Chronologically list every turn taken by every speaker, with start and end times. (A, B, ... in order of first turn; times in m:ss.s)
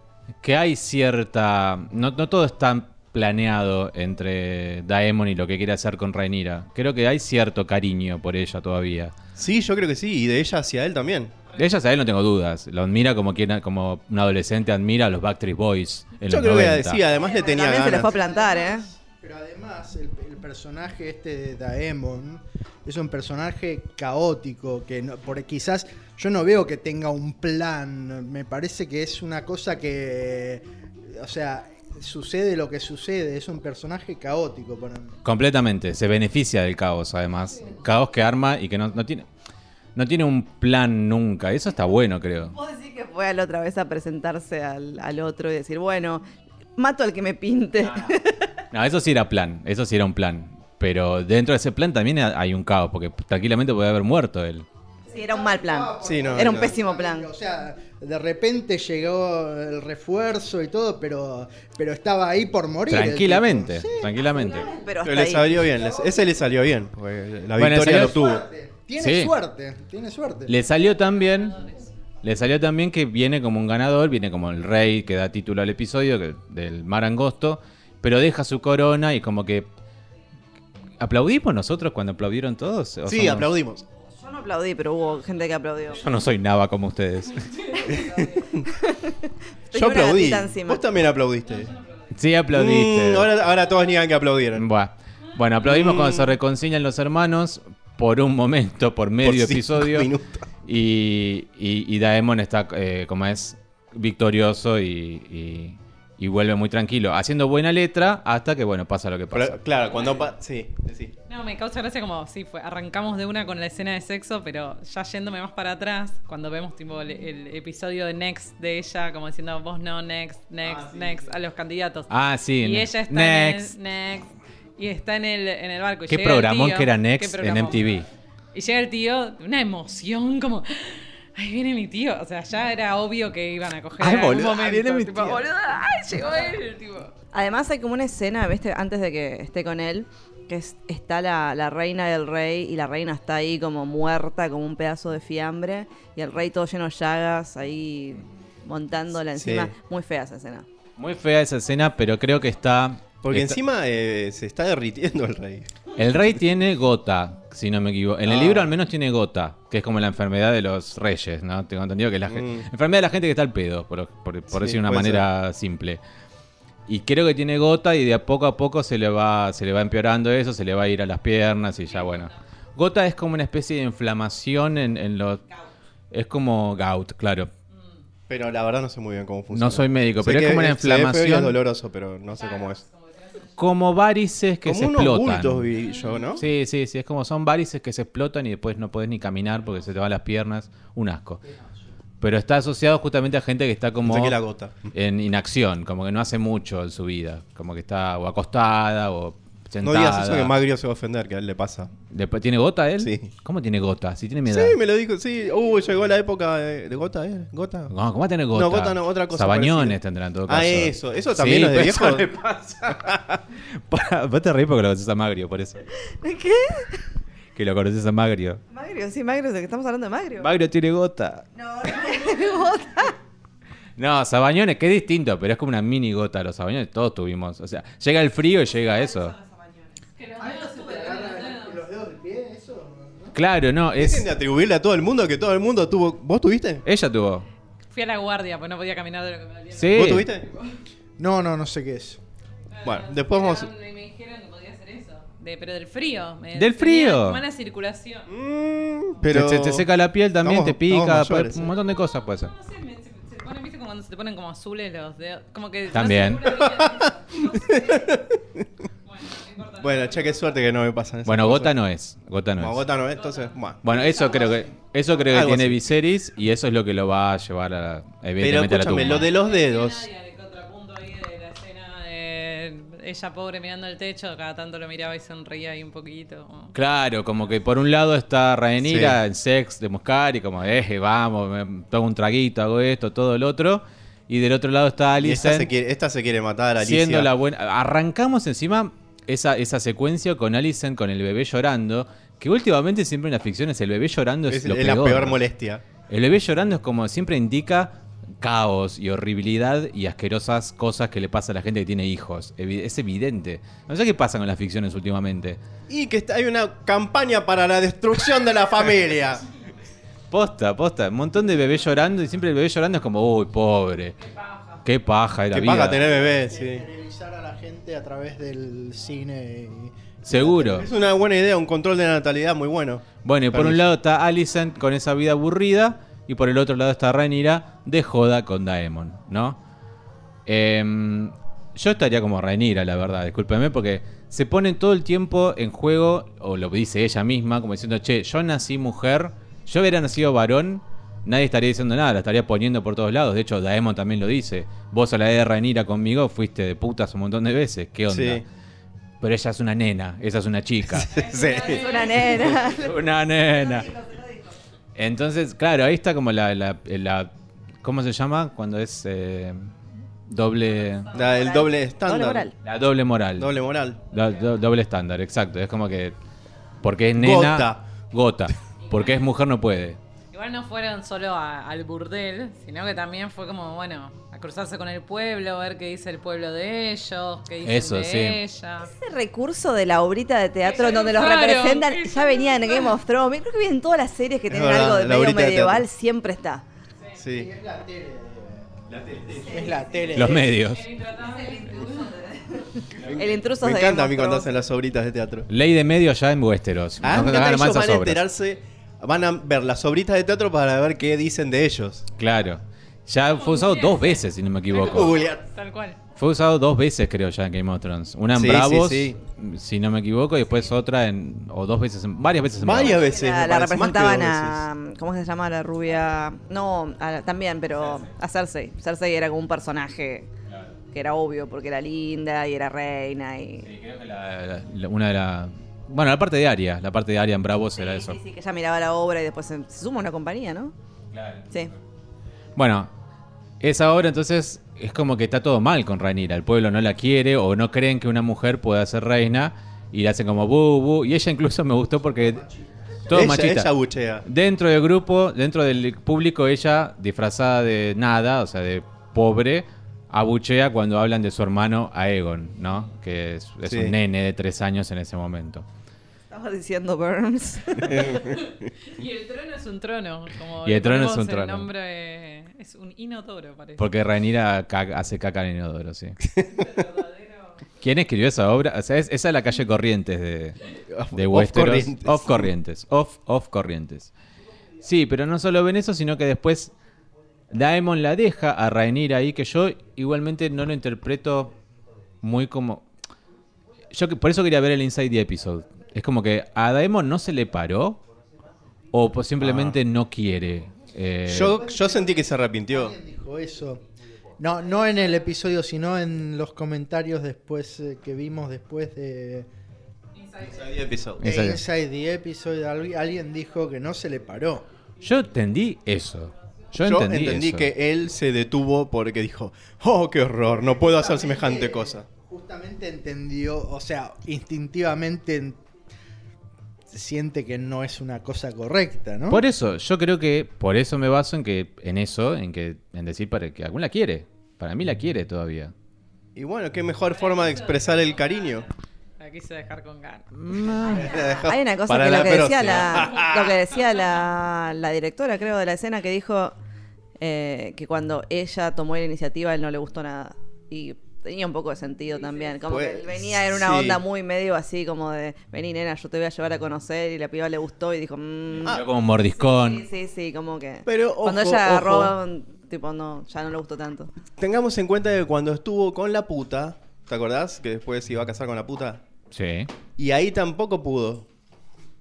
0:00.4-0:09.1 A
0:09.4-0:11.3 B
0:11.6-0:17.0 A
0:16.3-0:18.2 B
0:17.2-0:35.2 C
0:17.2-0:18.9 D
0:35.2-0:39.3 A
0:40.0-0:42.6 A
0:42.4-0:46.2 D
0:46.8-0:48.5 D
0:47.9-0:48.1 A
0:48.7-0:54.7 A
0:55.1-1:04.9 C
0:55.1-0:57.3 D
0:56.0-0:56.8 B
1:02.9-1:04.7 A
1:04.6-1:05.7 D
1:05.0-1:08.4 B
1:05.6-1:06.3 C
1:07.6-1:08.4 A
1:08.0-1:10.5 C
1:09.0-1:09.3 A
1:10.5-1:11.6 A
1:11.5-1:11.9 E
1:12.2-1:19.7 A
1:21.0-1:23.5 A
1:23.1-1:23.9 B
1:24.2-1:26.0 D
1:26.0-1:27.5 A
1:27.6-1:28.4 E
1:27.9-1:28.7 B
1:28.6-1:30.8 D
1:29.7-1:31.7 B
1:31.6-1:32.1 E
1:32.1-1:33.3 A
1:32.5-1:34.7 B
1:34.6-1:40.1 A
1:35.6-1:36.4 B
1:39.2-1:40.4 B
1:40.7-1:49.6 A
1:49.3-1:51.1 B
1:51.3-2:07.9 E
2:02.1-2:03.7 A
2:06.1-2:08.1 A
2:08.5-2:17.1 E
2:14.0-2:15.4 B
2:14.7-2:14.9 A
2:17.3-2:30.7 D
2:29.3-2:29.7 B
2:31.0-2:33.6 A
2:33.2-2:35.7 B
2:36.0-2:46.0 A
2:38.2-2:38.7 B
2:42.3-2:42.7 B
2:44.5-2:45.3 B
2:46.9-2:55.4 A
2:52.0-2:52.3 E
2:56.1-2:57.5 A
2:58.3-3:02.8 B
2:59.5-3:01.6 A
3:02.3-3:03.5 E
3:03.6-3:05.7 A
3:04.6-3:06.4 B
3:05.8-3:06.4 E
3:06.4-3:11.4 A
3:11.4-3:11.9 C
3:12.2-3:14.4 A
3:14.0-3:14.9 B
3:14.9-3:20.5 A
3:19.8-3:21.9 B
3:22.1-3:24.8 A
3:23.0-3:23.3 B
3:24.5-3:27.9 B
3:27.9-3:35.8 A
3:28.5-3:32.3 B
3:36.1-3:37.0 D
3:37.6-3:38.6 A
3:38.7-3:40.5 D
3:40.4-3:41.5 A
3:41.6-3:43.2 D
3:44.0-3:49.3 A
3:49.3-3:51.8 E
3:50.4-3:53.4 C
3:53.3-3:54.3 A
3:54.0-3:56.8 B
3:56.8-3:57.5 A
3:57.9-4:00.8 E
3:59.7-4:00.3 A
4:00.0-4:00.5 B
4:01.2-4:02.2 C
4:02.7-4:08.3 E
4:02.8-4:03.7 B
4:06.6-4:07.4 A
4:08.3-4:09.9 B
4:09.3-4:12.5 A
4:10.4-4:11.7 B
4:12.5-4:18.2 E
4:15.9-4:16.6 A
4:16.7-4:18.6 B
4:19.0-4:20.5 E
4:19.8-4:21.8 B
4:21.2-4:22.9 A
4:22.6-4:23.9 B
4:23.2-4:24.6 E
4:23.8-4:29.3 A
4:25.3-4:25.8 B
4:28.4-4:30.1 B
4:29.0-4:36.7 E
4:36.7-4:45.7 A
4:38.8-4:39.2 B
4:45.2-4:47.3 B
4:46.8-4:55.4 A
4:54.5-4:55.8 B
4:56.1-5:05.6 A
5:05.9-5:09.4 B
5:10.3-5:14.2 A
5:14.2-5:14.8 E
5:14.8-5:16.0 A
5:15.5-5:16.8 B
5:16.0-5:20.0 C
5:20.2-5:20.9 A
5:20.3-5:23.9 B
5:23.2-5:29.6 A
5:30.5-5:48.4 A
5:48.1-5:48.4 B
5:49.2-5:51.1 A
5:51.0-5:52.3 B
5:51.1-5:52.6 E
5:51.7-5:53.0 D
5:52.6-5:53.9 A
5:53.6-5:54.5 D
5:55.0-5:57.3 A
5:57.8-5:59.7 A
6:00.3-6:01.1 A
6:00.8-6:01.3 E
6:01.1-6:02.5 B
6:01.2-6:02.5 D
6:02.6-6:03.6 A
6:03.4-6:04.0 B
6:04.1-6:06.2 A
6:06.8-6:10.0 A
6:07.2-6:07.8 B
6:08.9-6:09.2 E
6:10.3-6:18.9 E
6:17.6-6:18.4 A
6:18.8-6:26.6 D
6:20.6-6:22.9 E
6:24.5-6:25.8 B
6:27.2-6:27.5 B
6:27.3-6:30.6 C
6:30.1-6:30.8 A
6:30.4-6:32.2 E
6:31.2-6:34.5 D
6:33.0-6:35.5 B
6:35.5-6:38.2 A
6:37.0-6:42.0 B
6:42.2-6:45.2 A
6:43.4-6:44.2 E
6:44.7-6:45.4 B
6:44.8-6:46.0 E
6:46.2-6:53.0 A
6:48.3-6:49.2 B
6:52.6-6:54.7 B
6:53.0-7:00.3 D
6:57.8-6:58.1 A
7:00.5-7:00.8 A
7:00.9-7:03.7 D
7:03.6-7:08.2 A
7:07.8-7:10.7 D
7:11.1-7:11.8 A
7:12.6-7:12.9 A
7:13.6-7:22.4 A
7:22.3-7:23.0 C
7:23.1-7:23.7 A
7:23.1-7:24.2 B
7:24.2-7:35.7 A
7:33.7-7:34.0 B
7:36.3-7:38.2 D
7:38.0-7:43.8 E
7:40.6-7:41.7 A
7:43.8-7:46.2 A
7:46.5-7:47.6 E
7:47.8-7:50.6 A
7:50.9-7:52.5 B
7:51.1-7:54.1 A
7:54.8-7:56.7 A
7:57.5-8:01.5 A
8:02.2-8:02.9 A
8:03.9-8:08.0 A
8:08.9-8:11.6 A
8:09.4-8:09.8 B
8:11.3-8:13.0 B
8:11.5-8:13.8 C
8:14.4-8:19.5 C
8:20.2-8:20.7 E
8:20.4-8:21.2 B
8:21.2-8:21.6 A
8:21.2-8:24.7 C
8:25.0-8:27.7 A
8:26.8-8:32.1 B
8:30.8-8:35.6 C
8:36.9-8:39.4 C
8:39.3-8:45.7 A
8:46.4-8:48.7 B
8:47.1-8:51.4 E
8:50.3-8:51.1 A
8:50.9-8:53.6 B
8:51.3-8:56.6 D
8:53.0-8:53.3 E
8:57.2-9:14.1 D
9:02.7-9:04.0 B
9:08.5-9:09.8 A
9:10.9-9:12.2 B
9:14.4-9:19.0 B
9:19.3-9:19.7 A
9:20.0-9:21.3 B